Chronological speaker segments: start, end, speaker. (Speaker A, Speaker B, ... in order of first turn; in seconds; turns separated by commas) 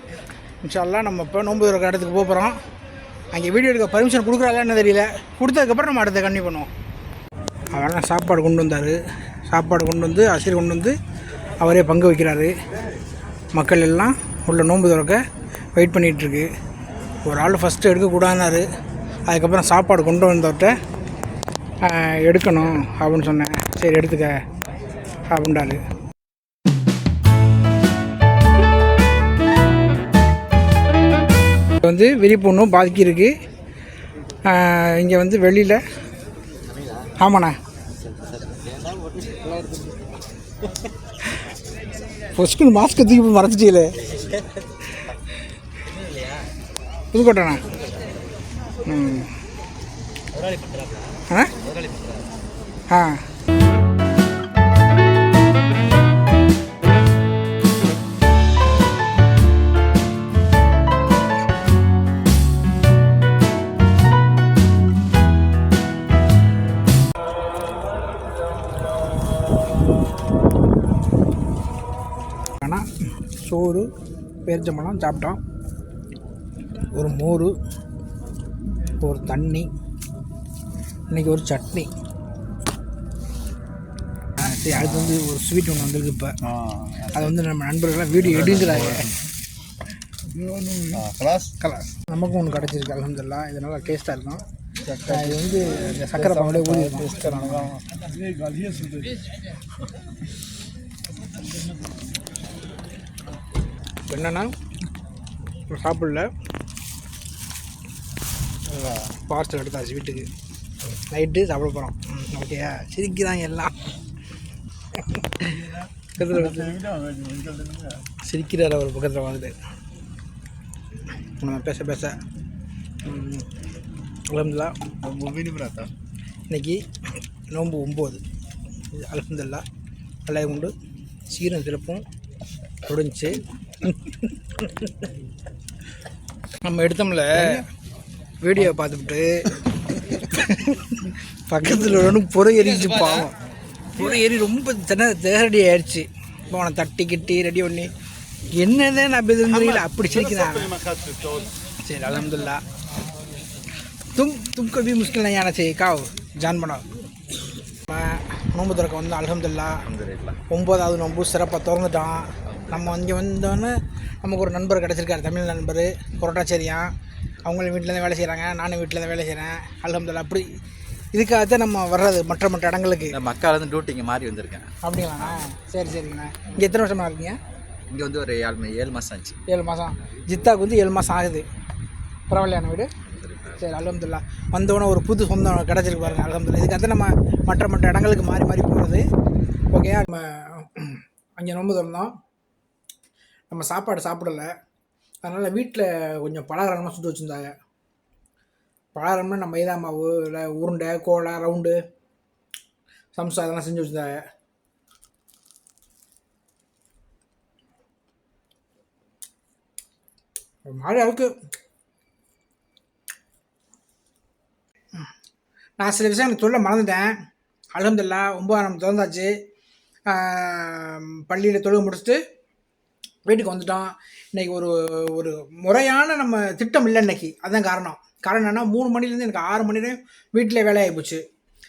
Speaker A: 0.6-2.6, Speaker A: 3.3-6.7, Speaker A: 7.7-9.0, Speaker A: 9.5-11.0, Speaker A: 11.6-12.5, Speaker A: 13.5-15.2, Speaker A: 15.8-16.5, Speaker A: 17.2-18.7, Speaker A: 19.3-20.8, Speaker A: 21.8-24.4, Speaker A: 25.3-25.8, Speaker A: 31.8-33.4, Speaker A: 34.5-35.8, Speaker A: 37.2-37.6, Speaker A: 42.4-43.9, Speaker A: 47.1-47.6, Speaker A: 48.9-49.3, Speaker B: 50.4-51.0, Speaker B: 51.7-52.1, Speaker A: 52.9-53.2, Speaker A: 72.6-73.9, Speaker A: 74.5-75.4, Speaker A: 76.9-77.5, Speaker A: 79.0-79.7, Speaker A: 81.1-81.9, Speaker A: 84.4-86.4, Speaker A: 87.0-89.1, Speaker C: 90.4-91.5, Speaker A: 91.6-97.8, Speaker A: 104.1-104.5, Speaker A: 105.7-106.3, Speaker A: 108.7-110.3, Speaker A: 111.1-113.8, Speaker A: 115.0-116.8, Speaker C: 116.7-118.0, Speaker A: 118.2-119.5, Speaker A: 121.4-122.2, Speaker A: 123.0-123.5, Speaker A: 124.3-124.8, Speaker C: 125.1-125.9, Speaker A: 126.5-126.8, Speaker A: 127.5-128.2, Speaker A: 128.9-129.7, Speaker A: 130.3-130.7, Speaker A: 131.3-132.0, Speaker A: 132.9-135.1, Speaker A: 136.6-137.7, Speaker A: 138.4-143.3, Speaker A: 143.9-147.9, Speaker A: 148.6-150.8, Speaker C: 150.9-151.4, Speaker A: 151.8-152.6, Speaker A: 154.2-156.8, Speaker A: 157.9-159.8, Speaker B: 159.9-160.4, Speaker A: 160.5-166.9, Speaker B: 162.5-163.0, Speaker A: 167.5-170.5, Speaker A: 171.1-173.2, Speaker B: 173.1-175.4, Speaker A: 174.8-177.4, Speaker B: 177.9-179.4, Speaker A: 179.5-181.5, Speaker A: 182.3-182.9, Speaker B: 183.1-183.6, Speaker A: 183.6-189.0, Speaker A: 189.7-192.1, Speaker A: 193.5-194.5, Speaker A: 195.2-197.6, Speaker A: 198.9-201.8, Speaker A: 203.2-204.2, Speaker A: 210.7-211.3, Speaker A: 215.8-217.1, Speaker A: 217.8-219.3, Speaker A: 220.1-222.2, Speaker A: 223.3-231.2